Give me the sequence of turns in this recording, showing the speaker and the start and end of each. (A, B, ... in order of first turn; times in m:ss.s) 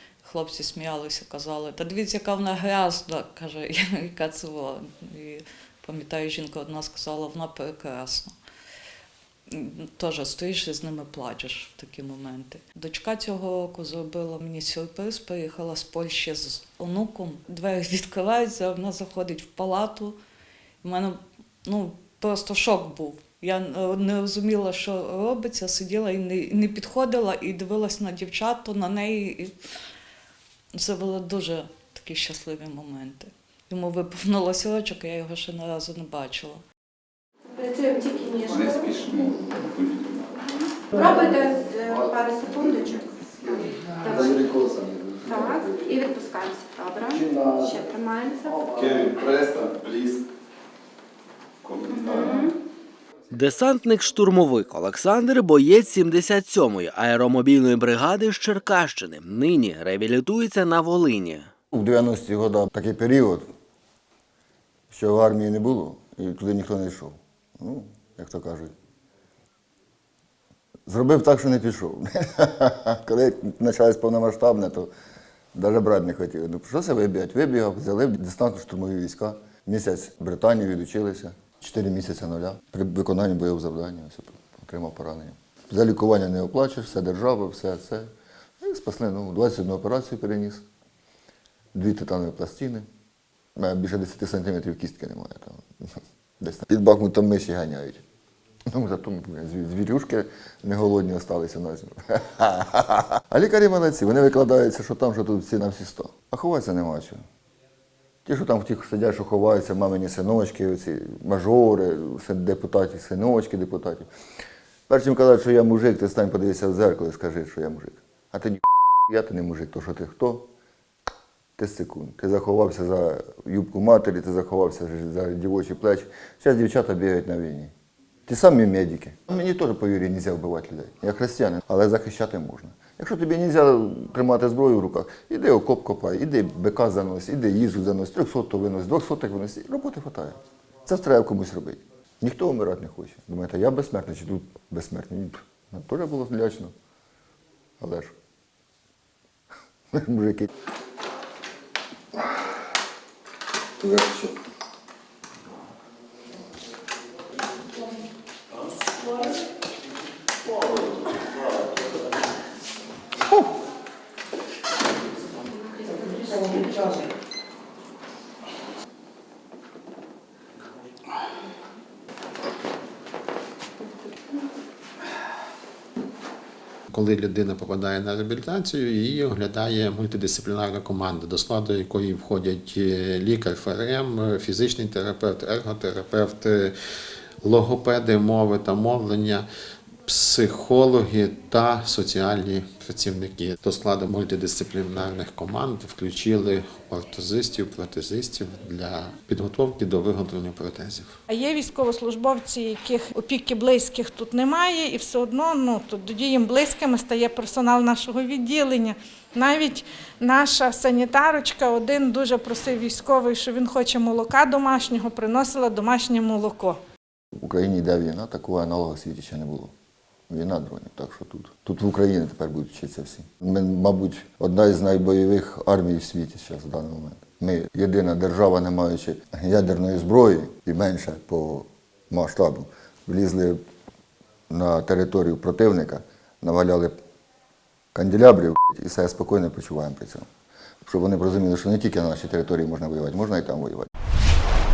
0:00.2-0:08.3 A
0:09.5-0:20.2 A
0:20.8-0:29.6 A
0:30.8-0:36.6 A
0:37.6-0:39.3 B
0:40.9-0:44.6 B
0:44.0-0:45.6 C
0:45.2-0:48.8 B
0:51.9-0:52.5 B
0:53.3-1:01.5 D
1:01.7-1:03.5 C
1:04.9-1:08.7 C
1:10.9-1:14.9 C
1:15.5-1:30.6 C
1:31.7-1:32.9 C
1:33.6-1:35.6 C
1:36.4-1:38.0 C
1:38.7-1:47.2 C
1:48.2-1:54.1 C
1:54.9-2:00.5 C
2:01.6-2:07.7 C
2:08.3-2:26.7 C
2:27.8-2:28.1 C
2:29.9-2:30.5 C
2:33.8-2:34.3 C
2:46.0-2:46.6 B
2:56.9-3:06.7 E
3:07.4-3:09.5 E
3:10.0-3:21.2 E
3:21.3-3:36.8 F
3:37.4-3:39.7 C
3:40.3-3:53.6 C
3:54.5-3:57.0 C
3:58.0-4:00.2 C
4:00.9-4:03.9 C